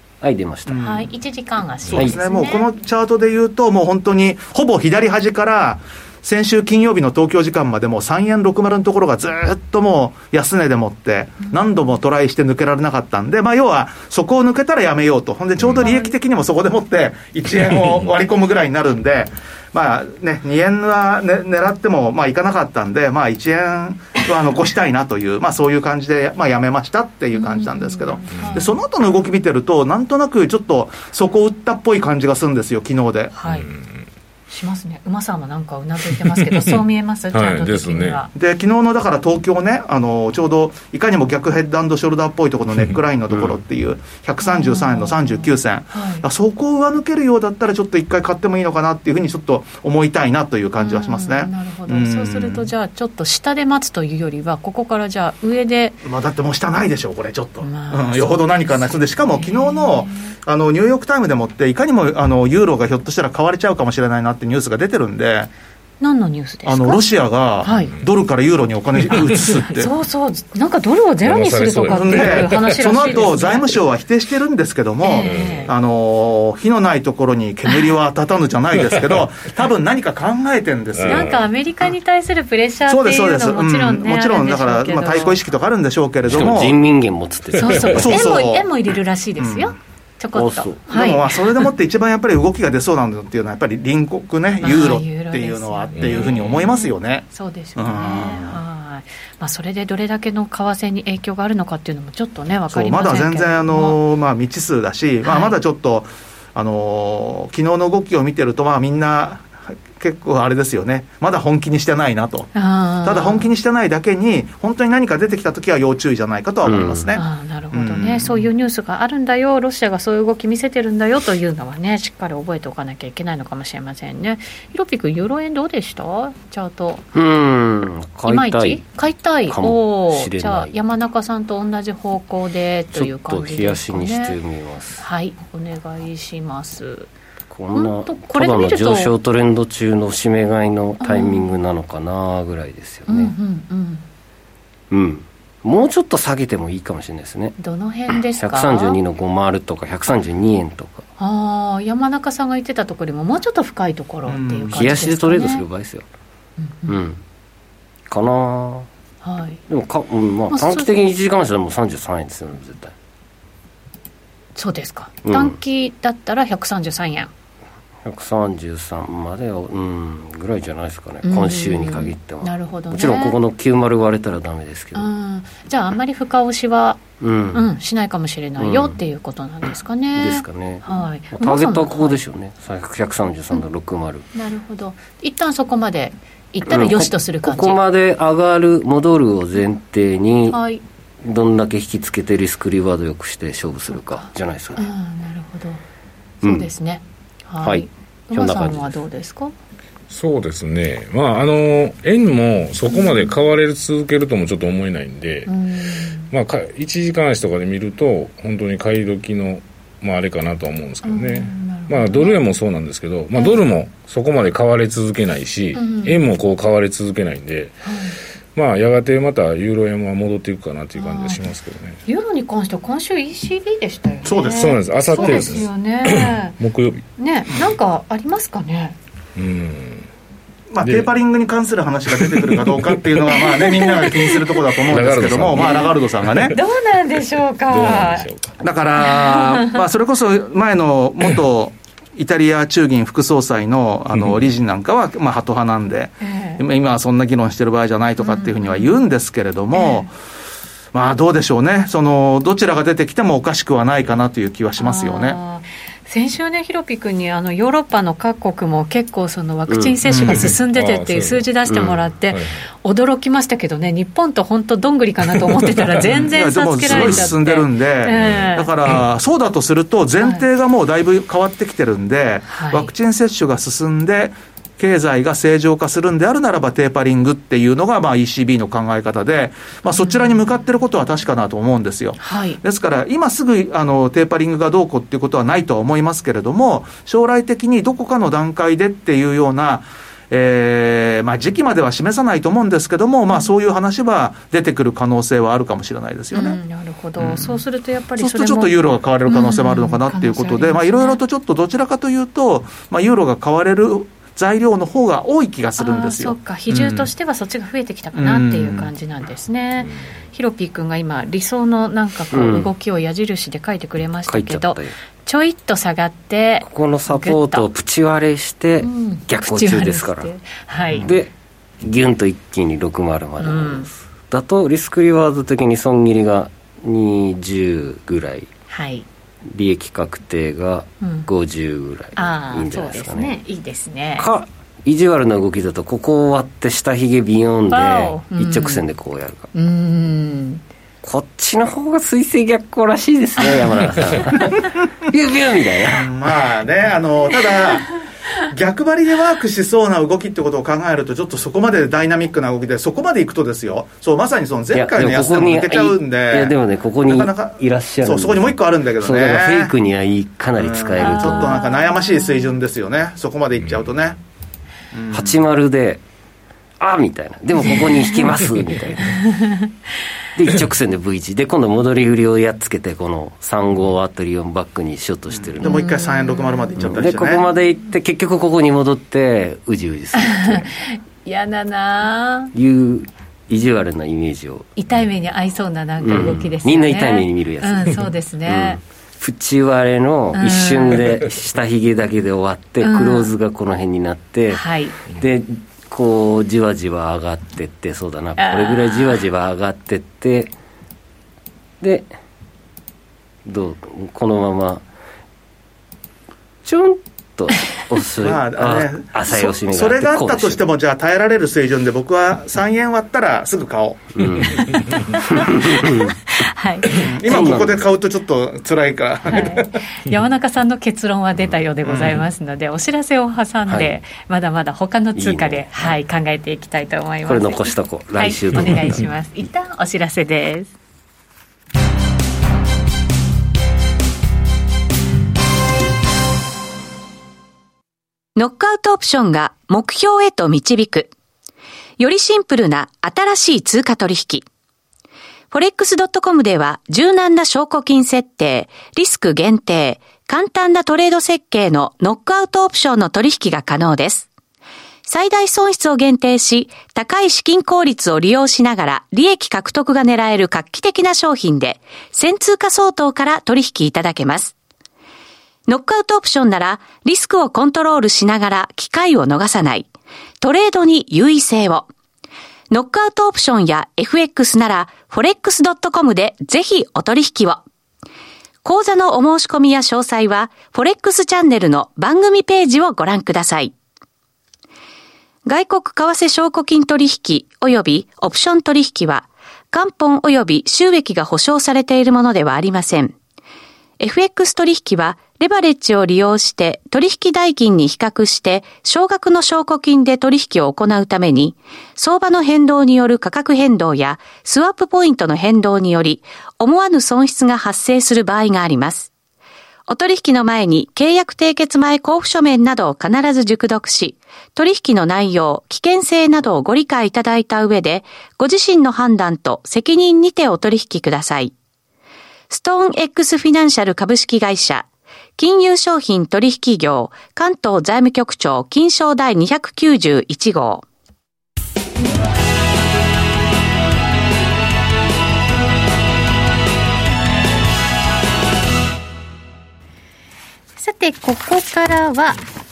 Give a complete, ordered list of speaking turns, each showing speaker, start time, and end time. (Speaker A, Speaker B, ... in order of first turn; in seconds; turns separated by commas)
Speaker A: 0.2-0.8, Speaker B: 0.7-1.1, Speaker C: 0.8-2.7, Speaker B: 1.9-33.4, Speaker C: 15.8-16.1, Speaker C: 27.4-28.7, Speaker C: 33.3-33.7, Speaker D: 33.6-34.0, Speaker C: 34.5-38.3, Speaker D: 36.5-36.8, Speaker D: 37.3-38.2, Speaker B: 38.3-52.7, Speaker C: 44.4-46.3, Speaker C: 50.8-56.0, Speaker B: 56.0-65.5, Speaker C: 57.6-60.3, Speaker C: 66.0-67.0, Speaker B: 66.7-69.9, Speaker C: 67.6-68.0, Speaker C: 69.4-73.8, Speaker D: 71.2-73.3, Speaker B: 71.9-81.3, Speaker C: 75.0-75.7, Speaker D: 75.2-75.7, Speaker D: 81.0-81.4, Speaker C: 81.0-85.4, Speaker B: 82.9-86.8, Speaker A: 86.3-88.2, Speaker C: 87.5-91.2, Speaker B: 87.9-88.7, Speaker B: 89.4-89.7, Speaker A: 90.3-90.8, Speaker B: 90.9-98.6, Speaker C: 94.6-104.0, Speaker D: 96.0-96.7, Speaker B: 102.7-112.5, Speaker C: 105.2-105.6, Speaker C: 112.5-113.5, Speaker B: 113.0-118.5, Speaker A: 116.6-117.1, Speaker C: 117.1-127.0, Speaker A: 127.1-128.8, Speaker C: 128.3-134.4, Speaker A: 129.5-130.7, Speaker A: 132.9-135.0, Speaker C: 135.0-137.1, Speaker A: 137.5-143.3, Speaker C: 137.7-139.1, Speaker C: 141.0-141.5, Speaker C: 143.1-144.1, Speaker A: 144.9-147.6, Speaker C: 147.6-149.0, Speaker A: 148.1-151.1, Speaker C: 151.2-155.7, Speaker B: 154.3-154.9, Speaker A: 154.7-156.1, Speaker C: 156.6-157.0, Speaker A: 156.9-157.2, Speaker A: 158.1-158.9, Speaker C: 159.2-159.6, Speaker A: 159.7-162.9, Speaker C: 160.5-160.9, Speaker C: 164.6-167.3, Speaker A: 165.2-165.6, Speaker A: 168.0-175.1, Speaker C: 171.2-173.4, Speaker C: 174.9-177.0, Speaker A: 177.2-177.7, Speaker C: 177.5-182.2, Speaker A: 178.6-179.0, Speaker A: 180.2-184.2, Speaker C: 184.3-187.8, Speaker A: 186.7-190.6, Speaker C: 190.5-190.8, Speaker A: 191.2-194.9, Speaker C: 193.9-195.8, Speaker A: 196.4-196.7, Speaker C: 196.4-199.5, Speaker A: 197.6-198.9, Speaker D: 200.1-205.5, Speaker C: 202.9-203.3, Speaker C: 205.5-206.3, Speaker D: 206.3-217.8, Speaker C: 211.0-212.4, Speaker C: 215.8-216.2, Speaker C: 217.8-218.2, Speaker D: 218.5-222.0, Speaker C: 221.0-221.4, Speaker C: 222.1-226.6, Speaker B: 224.2-225.6, Speaker D: 224.6-227.1, Speaker C: 227.2-229.0, Speaker D: 229.4-230.1, Speaker B: 230.7-236.6, Speaker D: 230.8-231.1, Speaker D: 232.2-233.0, Speaker C: 233.3-234.5, Speaker D: 234.9-235.9, Speaker C: 235.6-235.9, Speaker C: 236.5-238.3, Speaker D: 237.7-238.6, Speaker B: 238.6-250.1, Speaker C: 239.0-239.8, Speaker C: 246.2-246.6, Speaker C: 248.2-249.0, Speaker C: 249.7-250.1, Speaker B: 250.9-255.4, Speaker C: 254.8-268.7, Speaker A: 259.7-260.0, Speaker B: 260.1-260.5, Speaker D: 260.4-261.5, Speaker A: 261.7-262.0, Speaker D: 262.3-262.7, Speaker B: 266.2-296.6, Speaker C: 270.2-270.4, Speaker C: 272.5-272.9, Speaker C: 280.0-280.4, Speaker C: 282.2-282.6, Speaker C: 296.3-298.8, Speaker B: 297.2-297.6, Speaker B: 298.2-307.1, Speaker C: 299.3-301.2, Speaker C: 305.8-317.7, Speaker B: 308.2-308.9, Speaker A: 312.3-312.7, Speaker A: 314.3-314.9, Speaker A: 316.6-320.3, Speaker C: 318.8-321.1, Speaker A: 321.0-328.5, Speaker C: 323.4-323.9, Speaker C: 328.7-329.1, Speaker A: 329.5-333.4, Speaker C: 331.0-331.3, Speaker C: 332.2-334.3, Speaker A: 334.2-339.5, Speaker C: 337.7-338.9, Speaker C: 339.5-340.6, Speaker A: 341.0-346.1, Speaker B: 345.9-359.7, Speaker A: 354.7-361.6, Speaker B: 360.6-364.2, Speaker C: 361.0-362.5, Speaker B: 364.9-365.4, Speaker A: 365.1-366.0, Speaker A: 366.8-369.2, Speaker C: 369.3-369.6, Speaker A: 370.4-375.8, Speaker B: 375.4-377.4, Speaker C: 375.6-376.8, Speaker A: 376.8-380.7, Speaker C: 380.1-382.5, Speaker A: 382.5-384.7, Speaker C: 384.8-388.8, Speaker A: 386.0-400.5, Speaker C: 390.3-391.1, Speaker C: 392.8-393.3, Speaker C: 394.5-395.0, Speaker C: 398.4-399.2, Speaker A: 401.8-402.1, Speaker A: 403.4-404.9, Speaker A: 406.6-410.6, Speaker B: 408.2-414.2, Speaker A: 414.2-414.6, Speaker C: 414.5-417.0, Speaker A: 415.1-416.1, Speaker B: 416.9-419.7, Speaker A: 417.2-417.8, Speaker C: 419.3-430.7, Speaker B: 421.9-422.1, Speaker A: 423.7-423.9, Speaker A: 425.1-425.9, Speaker A: 427.3-429.1, Speaker E: 438.4-441.1, Speaker E: 442.0-444.4, Speaker E: 445.5-454.3, Speaker E: 455.1-464.5, Speaker E: 465.7-469.9, Speaker E: 470.4-471.9, Speaker E: 472.7-477.6, Speaker E: 478.6-483.7, Speaker E: 485.4-493.1, Speaker E: 494.0-509.1, Speaker E: 509.9-521.5, Speaker E: 522.5-524.9, Speaker E: 525.4-530.9, Speaker C: 540.8-542.4